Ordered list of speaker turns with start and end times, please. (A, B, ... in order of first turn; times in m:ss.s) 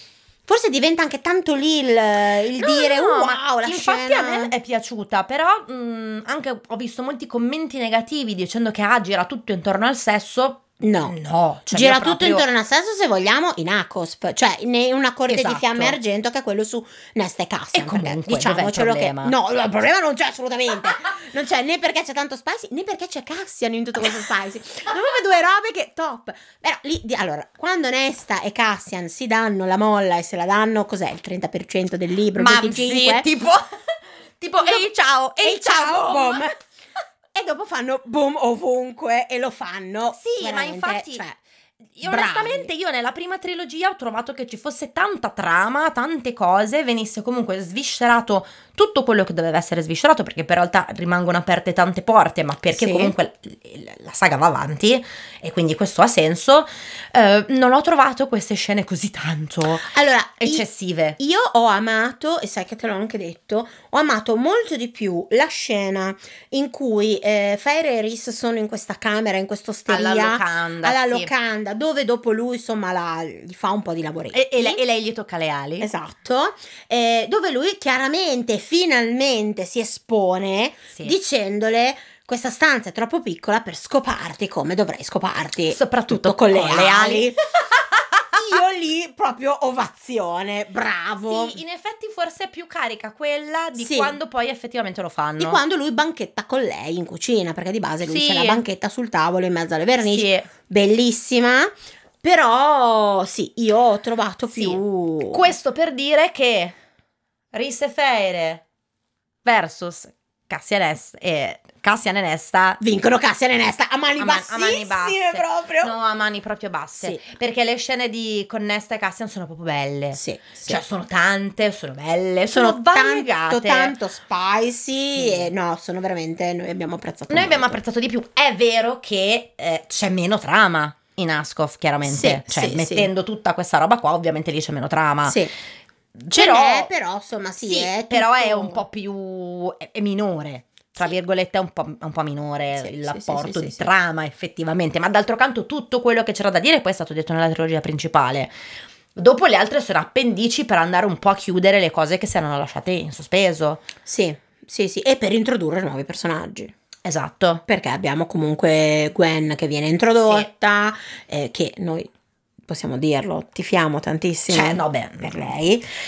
0:00.5-0:04.5 A
0:02.6-0:12.4 B
0:10.8-0:11.2 A
0:11.7-0:33.3 A
0:15.3-0:16.0 B
0:17.7-0:19.3 B
0:32.4-0:33.6 B
0:34.4-0:36.5 B
0:34.6-0:34.9 A
0:35.4-0:36.5 A
0:37.3-0:41.4 A
0:40.2-0:41.2 B
0:42.0-1:01.2 B
0:42.0-0:42.7 A
0:52.7-0:53.1 A
0:59.8-1:00.6 A
1:01.2-1:14.8 A
1:09.9-1:11.3 B
1:14.3-1:15.9 B
1:15.8-1:27.4 A
1:25.7-1:28.4 B
1:28.3-1:31.6 A
1:31.3-1:35.6 B
1:33.8-1:34.2 A
1:35.4-1:41.7 A
1:38.0-1:38.6 B
1:40.0-1:40.5 B
1:42.2-1:45.5 A
1:44.5-1:46.8 B
1:47.5-1:48.6 B
1:49.4-1:52.8 B
1:52.8-1:55.9 A
1:54.2-2:03.9 B
2:00.1-2:00.8 A
2:02.5-2:07.8 A
2:05.1-2:05.5 B
2:07.3-2:15.4 B
2:12.0-2:13.1 A
2:15.2-2:15.5 A
2:16.2-2:16.9 B
2:16.3-2:18.8 A
2:17.6-2:28.5 B
2:22.7-2:23.9 A
2:29.1-2:33.8 B
2:34.1-2:36.7 A
2:37.0-2:37.6 B
2:37.7-2:42.1 A
2:40.2-2:40.5 B
2:42.7-2:45.9 A
2:44.5-2:45.5 B